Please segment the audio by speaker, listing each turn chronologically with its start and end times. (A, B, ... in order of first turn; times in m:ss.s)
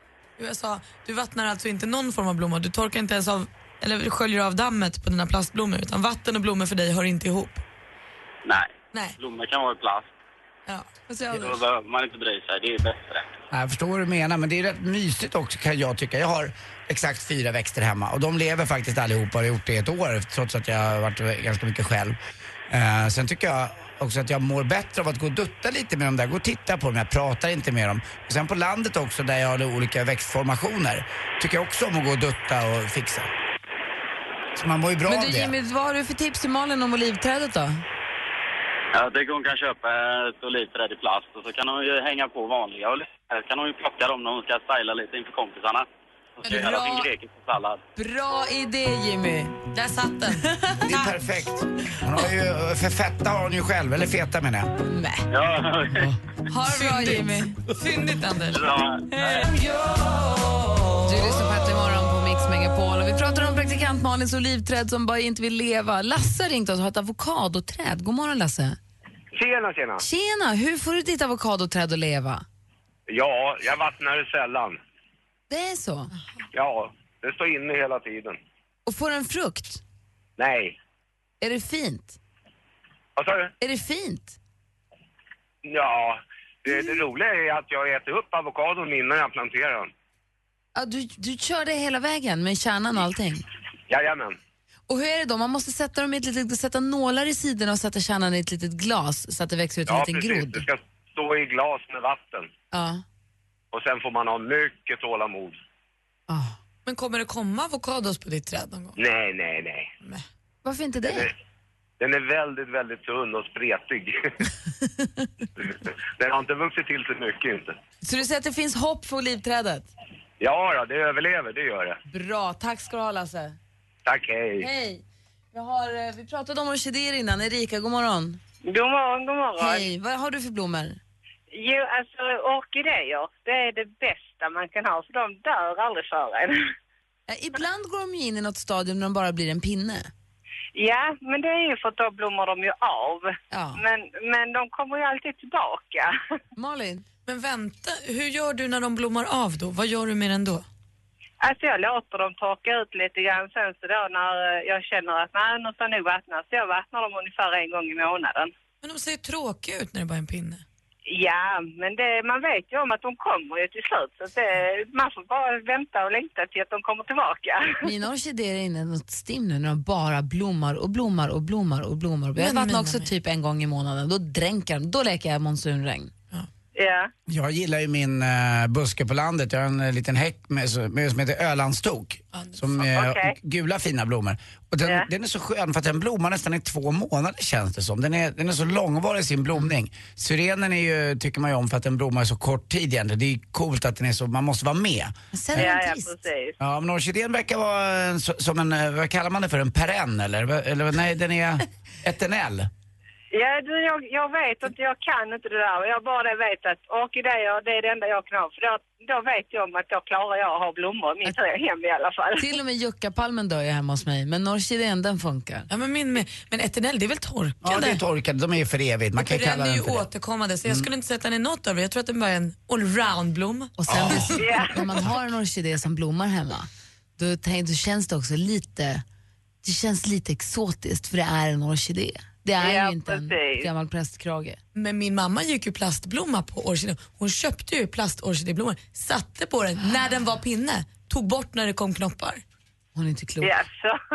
0:00.4-0:07.6 A
0:08.4-0:10.1 B
0:10.7-0:10.9 A
0:11.1-0:11.6 C
0:11.3-0:13.3 B
0:13.5-0:22.2 D
0:22.7-0:33.3 D
0:34.6-0:35.5 D
0:35.1-0:37.8 C
0:38.9-0:45.9 B
0:46.4-0:47.8 B
0:46.5-0:47.1 C
0:48.0-0:49.6 C
0:49.7-0:50.5 A
0:50.4-0:51.1 C
0:50.8-0:54.7 D
0:54.9-0:55.3 C
0:55.3-0:56.1 B
0:56.5-0:57.6 C
0:56.7-0:58.7 A
0:58.5-0:59.1 B
0:59.3-1:00.0 C
1:01.0-1:08.8 C
1:09.4-1:10.0 E
1:10.0-1:12.4 C
1:13.1-1:14.8 E
1:15.5-1:16.1 C
1:16.5-1:18.4 E
1:18.9-1:19.8 C
1:20.4-1:20.8 E
1:21.4-1:22.2 C
1:23.2-1:23.5 E
1:23.6-1:24.4 C
1:25.6-1:29.9 E
1:30.8-1:33.4 C
1:33.9-1:34.4 E
1:34.9-1:40.6 C
1:39.9-1:42.5 E
1:42.7-1:43.0 C
1:43.7-1:45.6 E
1:46.3-1:46.6 C
1:46.9-1:49.0 A
1:49.0-1:49.9 E
1:50.6-1:51.3 C
1:52.0-1:54.3 E
1:55.0-1:55.3 C
1:55.6-1:57.8 E
1:58.0-1:59.9 C
2:00.4-2:02.0 E
2:02.1-2:03.6 C
2:04.1-2:04.7 E
2:04.6-2:08.4 C
2:08.6-2:09.8 F
2:09.6-2:11.0 C
2:11.5-2:16.7 F
2:17.3-2:20.1 C
2:20.8-2:26.1 F
2:23.5-2:23.8 C
2:26.6-2:27.0 C
2:27.3-2:30.6 A
2:31.4-2:38.5 F
2:38.8-2:40.6 A
2:41.1-2:47.8 F
2:47.8-2:56.1 C
2:52.4-2:53.1 A
2:56.8-2:57.1 F
2:57.3-3:15.7 D
3:02.3-3:02.7 A
3:02.9-3:03.4 F
3:15.3-3:16.1 C
3:15.6-3:16.6 F
3:16.6-3:22.7 D
3:23.3-3:32.5 F
3:32.4-3:35.7 C
3:35.7-3:38.0 A
3:37.6-3:40.1 D
3:39.2-3:44.4 A
3:43.8-3:49.0 C
3:43.9-3:44.3 D
3:44.4-3:44.8 F
3:49.6-3:54.6 C
3:52.6-3:53.7 F
3:54.8-4:02.4 A
4:03.0-4:03.5 C
4:03.4-4:04.0 F